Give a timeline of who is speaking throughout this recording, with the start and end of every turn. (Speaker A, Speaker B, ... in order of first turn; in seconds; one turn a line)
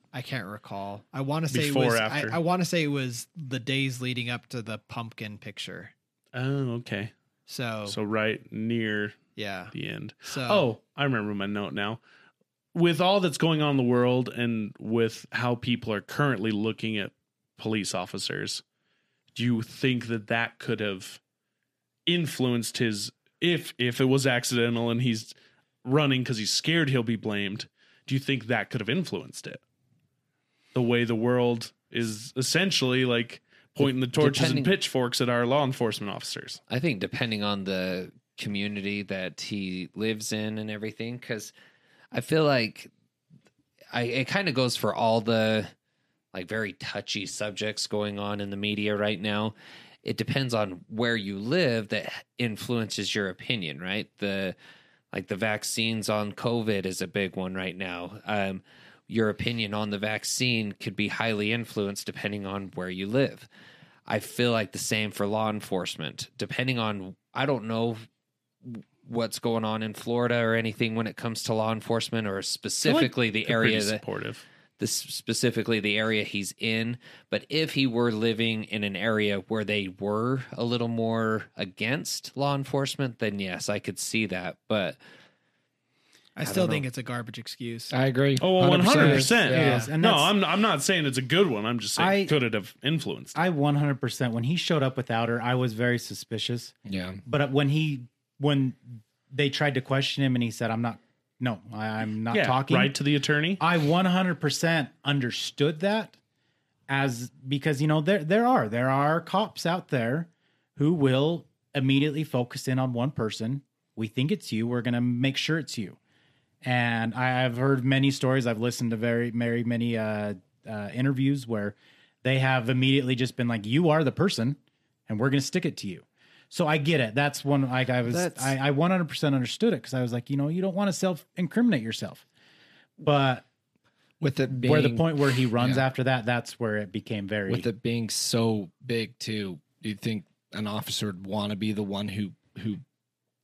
Speaker A: 0.1-5.9
Speaker B: 1.5-2.4
Speaker B: 6.3-7.1
Speaker A: 7.5-8.0
Speaker B: 7.9-12.0
Speaker A: 9.4-9.7
Speaker A: 10.3-10.7
Speaker B: 12.7-18.6
Speaker B: 19.3-21.2
Speaker B: 22.1-29.6
Speaker B: 30.7-36.6
Speaker C: 33.9-34.7
Speaker C: 36.7-41.5
Speaker C: 42.1-42.9
Speaker C: 43.9-45.7
Speaker C: 46.3-54.6
Speaker C: 55.1-63.5
Speaker C: 64.1-68.0
Speaker C: 68.6-74.0
Speaker B: 72.8-74.4
Speaker C: 74.8-85.0
Speaker A: 86.3-87.9
Speaker C: 86.5-86.8
Speaker D: 87.9-89.8
Speaker B: 88.4-93.4
Speaker E: 88.9-90.3
Speaker E: 92.0-92.3
Speaker E: 93.3-96.7
Speaker D: 96.8-97.2
Speaker E: 97.3-102.9
Speaker B: 102.3-103.6
Speaker E: 103.6-106.1
Speaker E: 106.9-116.0
Speaker E: 116.6-132.2
Speaker E: 133.0-133.4
Speaker D: 134.2-135.8
Speaker E: 134.5-137.7
Speaker D: 137.5-142.8